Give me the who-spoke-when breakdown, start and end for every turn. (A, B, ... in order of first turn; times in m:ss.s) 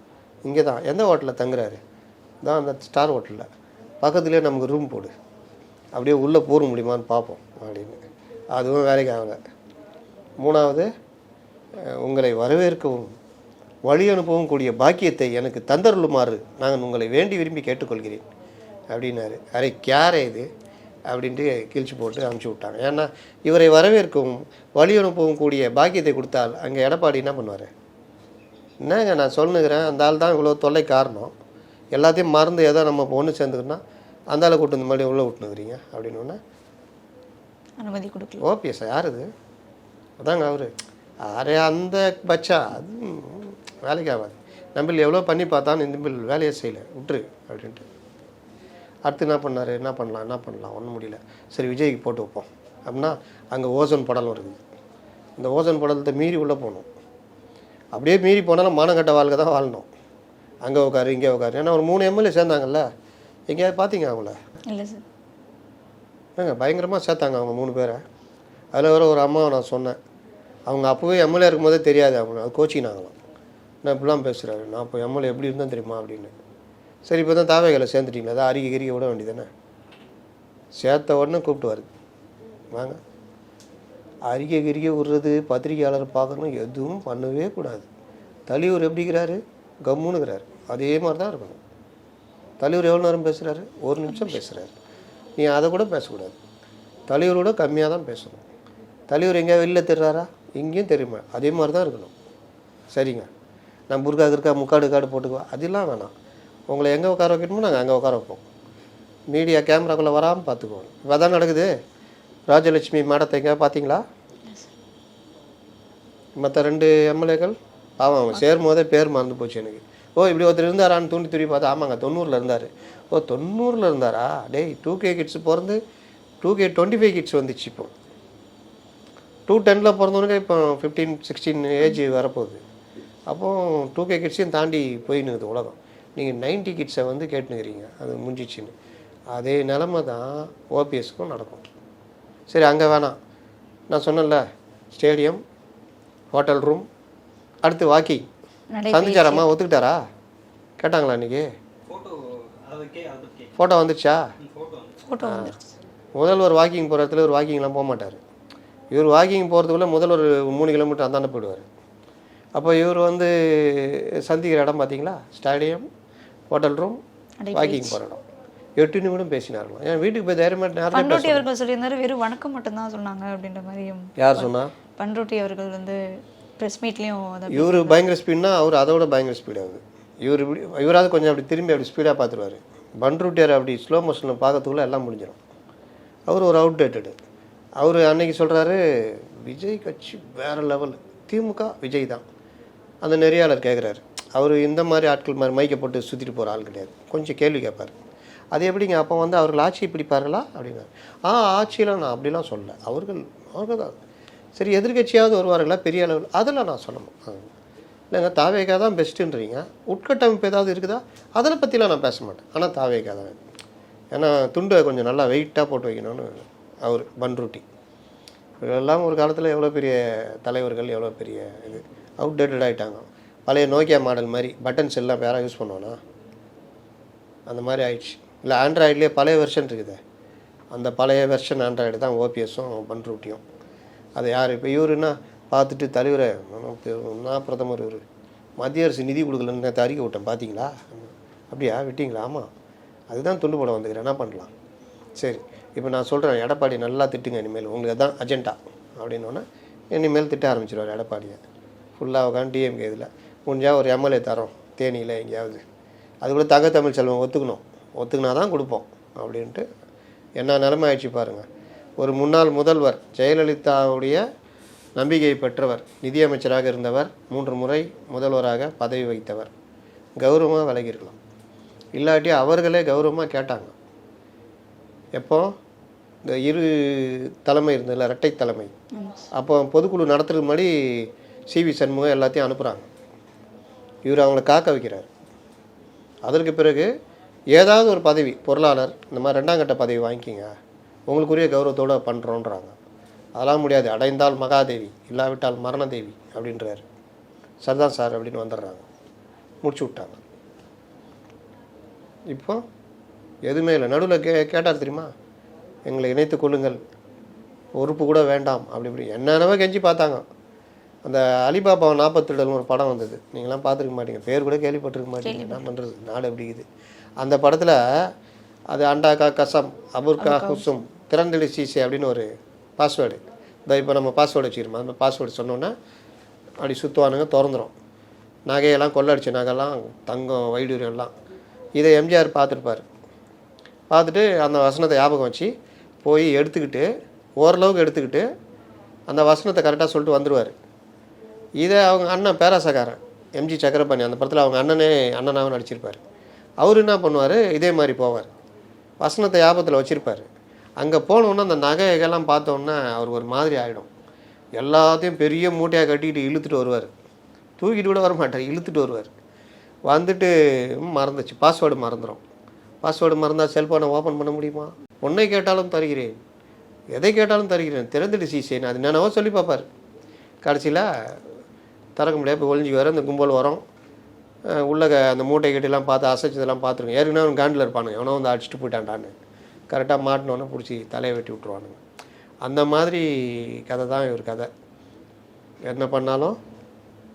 0:00.4-0:01.8 A
0:02.4-0:03.5 A
0:04.0-0:05.1 A
0:05.9-0:08.0 A
0:08.5-0:09.4 A
0:10.4-0:10.9 A
0:11.8-0:13.1 A
0:13.9-0:18.2 A
0:18.9-0:20.5 A
0:21.1-0:27.7 A
0:28.8-0:31.3 A
0:31.9-0:36.4 A
0:37.8-0:38.5 B
0:38.4-0:39.3 A
0:40.2-0:40.7 A
0:41.2-0:47.8 A
0:49.1-0:54.6 A
0:55.4-0:56.9 A
0:58.0-0:59.9 A
1:00.6-1:02.9 A
1:03.5-1:04.4 A
1:04.7-1:05.0 B
1:06.4-1:08.0 A
1:08.7-1:10.0 A
1:10.7-1:13.1 A
1:13.8-1:16.3 A
1:17.0-1:19.5 A
1:20.8-1:21.9 A
1:22.7-1:23.0 A
1:24.3-1:27.9 A
1:28.5-1:31.6 A
1:32.6-1:34.7 A
1:34.1-1:34.4 B
1:35.4-1:36.4 A
1:37.1-1:38.4 A
1:39.1-1:42.1 A
1:42.9-1:43.3 A
1:43.9-1:46.1 A
1:46.7-1:48.4 A
1:49.3-1:51.7 A
1:52.5-1:54.0 A
1:56.4-2:05.8 A
2:06.4-2:07.9 A
2:09.5-2:12.6 A
2:13.3-2:18.7 A
2:19.3-2:21.7 A
2:22.5-2:23.2 A
2:23.9-2:25.4 A
2:26.3-2:26.8 A
2:27.6-2:28.2 A
2:28.7-2:29.5 B
2:28.9-2:30.0 A
2:30.8-2:31.5 A
2:31.9-2:33.5 C
2:33.6-2:34.3 A
2:34.5-2:34.9 C
2:35.0-2:35.7 B
2:35.2-2:35.6 A
2:36.2-2:38.2 A
2:38.9-2:41.7 A
2:42.6-2:45.9 A
2:46.5-2:47.0 A
2:47.4-2:48.0 B
2:47.5-2:48.2 A
2:48.8-2:51.5 A
2:50.9-2:56.0 B
2:54.2-2:54.7 A
2:56.6-2:58.0 B
2:57.5-3:05.4 A
3:06.3-3:07.1 A
3:07.8-3:12.2 A
3:13.0-3:18.0 A
3:18.5-3:24.0 A
3:24.6-3:27.5 A
3:28.1-3:33.4 A
3:34.1-3:37.6 A
3:38.6-3:46.0 A
3:47.5-3:50.0 A
3:50.7-3:53.4 A
3:54.2-3:58.0 A
3:58.6-4:02.5 A
4:03.1-4:04.5 A
4:05.2-4:11.4 A
4:12.0-4:15.6 A
4:16.2-4:19.6 A
4:20.4-4:21.4 A
4:22.0-4:24.2 A
4:25.0-4:29.5 A
4:30.2-4:31.2 A
4:32.0-4:33.7 A
4:35.2-4:35.5 A
4:36.2-4:38.7 A
4:39.0-4:39.3 B
4:39.3-4:42.9 A
4:44.1-4:45.1 A
4:46.2-4:46.9 A
4:47.5-4:50.5 A
4:51.1-4:52.7 A
4:53.4-4:56.8 A
4:57.6-4:58.8 A
4:59.6-5:00.2 A
5:02.3-5:02.6 A
5:03.4-5:05.1 A
5:05.9-5:06.8 A
5:07.8-5:10.2 A
5:11.0-5:16.7 A
5:15.2-5:15.7 B
5:17.2-5:17.8 A
5:18.7-5:25.7 A
5:20.2-5:20.7 B
5:26.6-5:27.7 A
5:28.5-5:31.1 A
5:31.8-5:32.8 A
5:33.9-5:35.5 A
5:36.0-5:36.9 A
5:37.4-5:38.2 A
5:39.1-5:40.6 A
5:41.6-5:46.0 A
5:46.6-5:48.3 A
5:49.0-5:50.3 A
5:50.8-5:53.9 A
5:54.6-5:56.9 A
5:57.6-5:59.1 A
5:59.9-6:02.2 A
6:02.8-6:06.2 A
6:07.0-6:09.6 A
6:10.4-6:11.2 A
6:12.0-6:13.6 A
6:14.5-6:19.1 A
6:19.7-6:21.8 A
6:22.4-6:24.5 A
6:25.7-6:26.4 A